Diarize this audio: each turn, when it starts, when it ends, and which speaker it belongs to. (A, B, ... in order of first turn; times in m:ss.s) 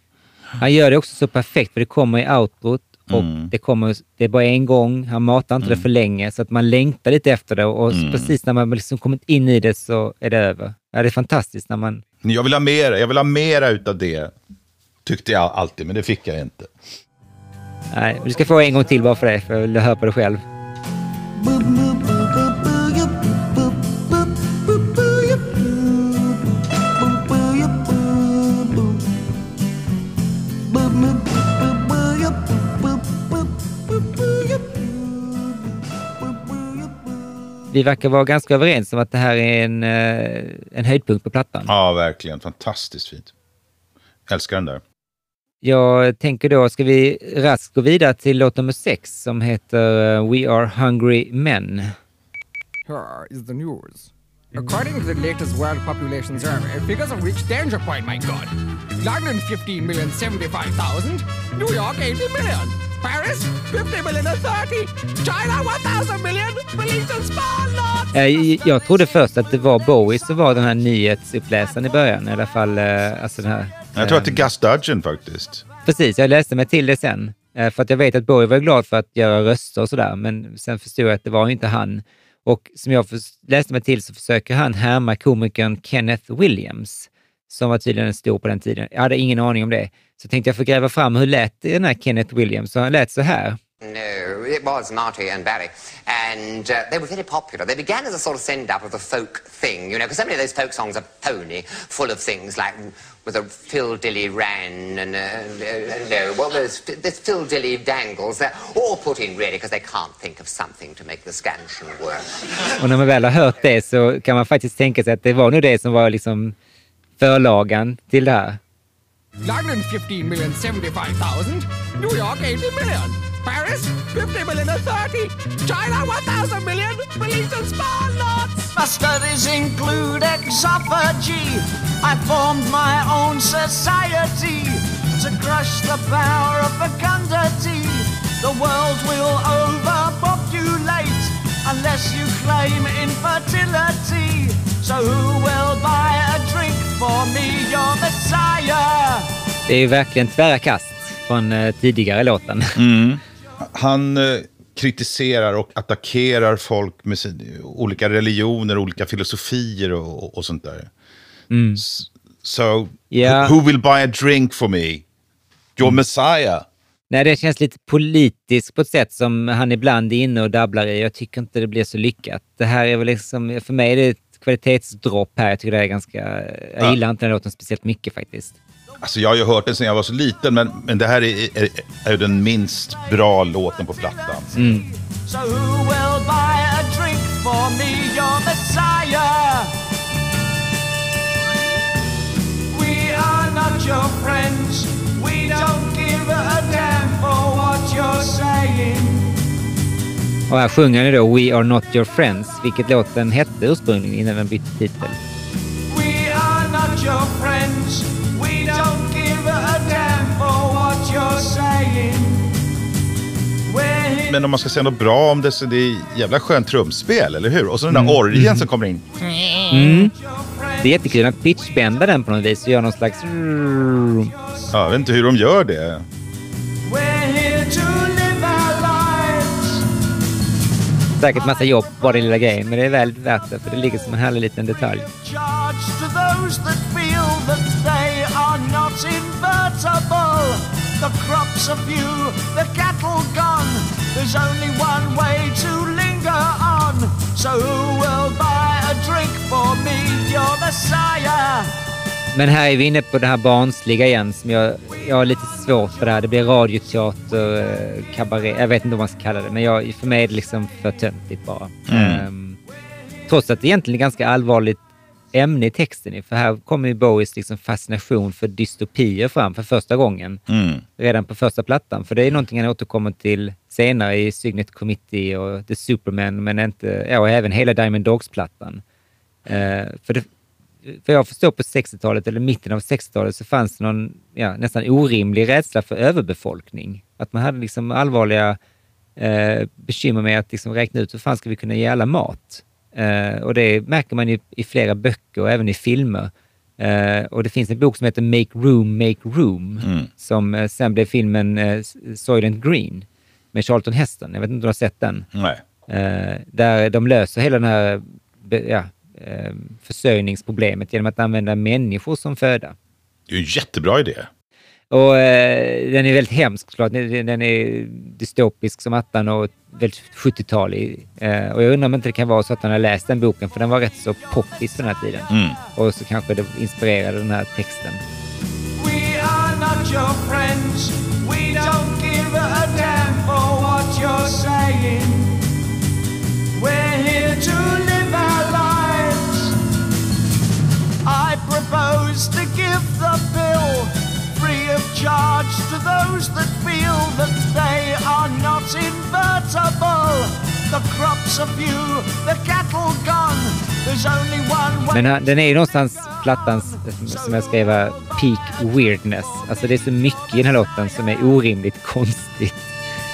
0:00.6-0:12.0 A
0:03.1-0:03.5 B
0:05.6-0:05.9 B
0:07.9-0:08.3 B
0:12.2-0:14.3 B
0:15.1-0:16.7 B
0:17.9-0:20.4 A
0:21.4-0:29.0 C
0:30.7-0:35.7 C
0:36.2-0:37.0 C
0:37.7-0:41.7 A
0:41.7-0:43.3 B
0:44.3-0:44.8 B
0:45.6-0:52.0 A
0:52.9-1:08.1 D
1:08.1-1:14.5 A
1:14.0-1:15.6 B
1:15.9-1:33.6 A
1:33.8-1:52.5 E
1:52.8-1:56.6 A
1:57.2-1:58.6 A
1:59.4-2:08.7 D
2:08.8-2:29.3 C
2:29.7-2:32.8 A
2:32.8-2:40.9 B
2:41.5-2:41.8 A
2:41.8-2:45.0 B
2:43.1-2:43.6 A
2:45.8-2:46.7 B
2:47.1-2:58.6 A
2:59.0-3:04.6 B
3:04.6-3:04.8 A
3:05.2-3:09.8 C
3:12.7-3:19.4 C
3:20.5-3:25.2 A
3:25.9-3:32.6 C
3:33.7-3:34.4 C
3:34.3-3:39.8 B
3:37.9-3:38.7 A
3:39.7-3:40.2 A
3:40.3-3:41.2 C
3:40.8-3:44.3 A
3:44.7-3:46.0 B
3:46.9-3:49.9 C
3:51.2-3:55.1 A
3:55.1-4:11.7 C
4:12.3-4:22.6 A
4:21.9-4:22.3 B
4:23.3-4:24.8 A
4:25.3-4:30.4 A
4:30.5-4:30.8 B
4:31.0-4:38.8 A
4:39.5-4:40.3 A
4:40.9-4:48.6 A
4:49.2-5:05.3 A
4:59.8-5:00.1 B
5:05.3-5:05.6 B
5:05.9-5:12.8 A
5:13.3-5:14.3 B
5:14.9-5:28.0 A
5:25.3-5:25.6 B
5:28.8-5:35.4 C
5:36.6-5:39.6 C
5:41.0-5:55.1 C
5:54.9-6:02.7 A